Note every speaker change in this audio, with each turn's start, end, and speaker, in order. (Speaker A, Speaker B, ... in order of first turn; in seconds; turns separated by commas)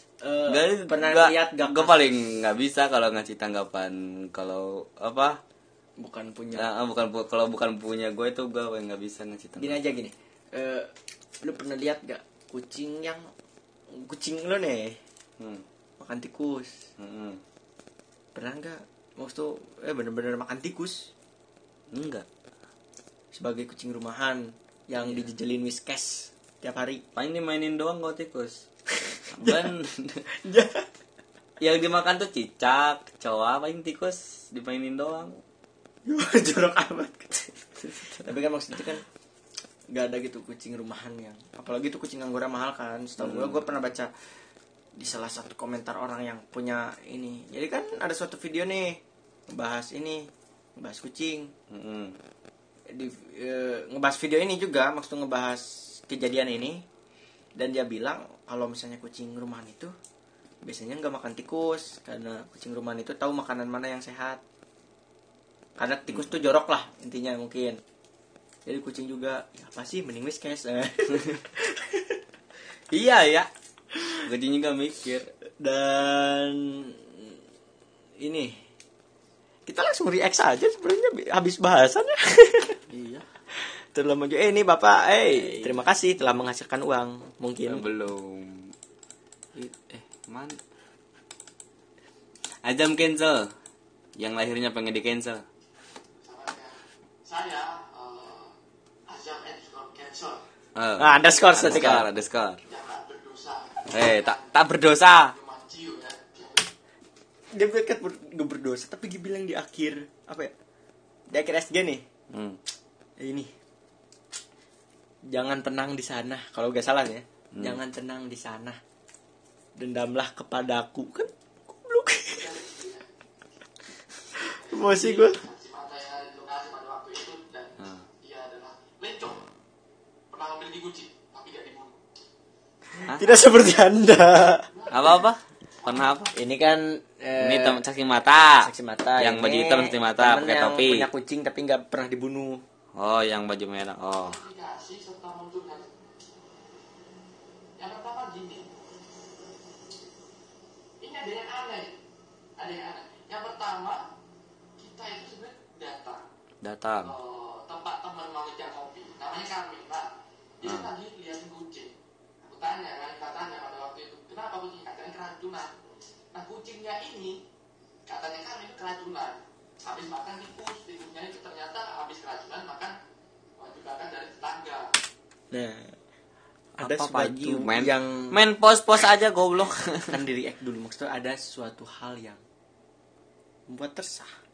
Speaker A: 0.2-2.0, Speaker B: 0.5-5.4, Speaker A: 6.0-6.7, Speaker B: 6.5-9.8, Speaker A: 9.6-10.9, Speaker A: 11.4-13.2, Speaker A: 13.9-15.0, Speaker B: 15.4-15.6, Speaker A: 16.0-16.7, Speaker B: 17.0-17.4, Speaker A: 18.3-21.1, Speaker B: 21.9-22.2, Speaker A: 23.3-27.0, Speaker B: 25.0-25.2, Speaker B: 27.1-28.6, Speaker B: 29.3-30.2, Speaker A: 29.4-29.7, Speaker A: 30.3-30.9, Speaker B: 31.6-35.4, Speaker A: 36.0-37.5, Speaker B: 37.8-38.2, Speaker A: 38.0-39.0, Speaker A: 39.9-44.1, Speaker B: 43.2-43.6, Speaker A: 45.0-51.5, Speaker B: 51.7-52.2, Speaker A: 52.9-56.8, Speaker A: 57.6-59.9, Speaker A: 60.6-64.4, Speaker A: 65.8-67.8, Speaker A: 68.7-72.2, Speaker B: 72.9-73.5, Speaker B: 74.2-75.3, Speaker A: 75.6-77.3, Speaker A: 78.2-78.6, Speaker A: 79.7-82.8, Speaker B: 82.9-83.2, Speaker A: 83.6-87.8, Speaker B: 85.3-85.8, Speaker B: 87.7-88.7, Speaker B: 89.5-90.6, Speaker B: 92.6-93.5, Speaker B: 94.2-95.4, Speaker C: 96.2-98.5, Speaker C: 99.1-100.4, Speaker B: 100.8-102.6, Speaker A: 101.0-102.0, Speaker C: 102.7-104.6, Speaker B: 103.9-105.3, Speaker C: 105.2-106.7, Speaker A: 107.5-110.5, Speaker A: 111.3-112.0, Speaker B: 112.3-112.6, Speaker A: 113.2-113.5, Speaker A: 115.3-118.8, Speaker A: 119.8-122.5, Speaker C: 122.3-123.0, Speaker C: 124.5-129.5, Speaker A: 124.6-125.4, Speaker B: 127.8-128.0, Speaker C: 130.3-132.0, Speaker B: 133.0-133.3, Speaker A: 133.2-134.7, Speaker C: 134.7-135.2, Speaker B: 134.9-136.3, Speaker A: 136.3-137.8, Speaker B: 137.4-141.1, Speaker A: 138.6-142.6, Speaker B: 143.0-144.4, Speaker C: 144.2-145.9, Speaker C: 147.8-148.7, Speaker C: 151.0-152.0, Speaker C: 152.6-154.1, Speaker C: 154.8-156.2, Speaker B: 156.6-157.1, Speaker C: 157.0-165.7, Speaker B: 160.6-160.9, Speaker C: 166.3-167.4, Speaker C: 168.1-172.9, Speaker C: 173.6-174.9, Speaker A: 175.5-175.9, Speaker A: 176.8-178.3, Speaker B: 176.8-180.1, Speaker A: 180.1-182.4, Speaker A: 183.7-184.3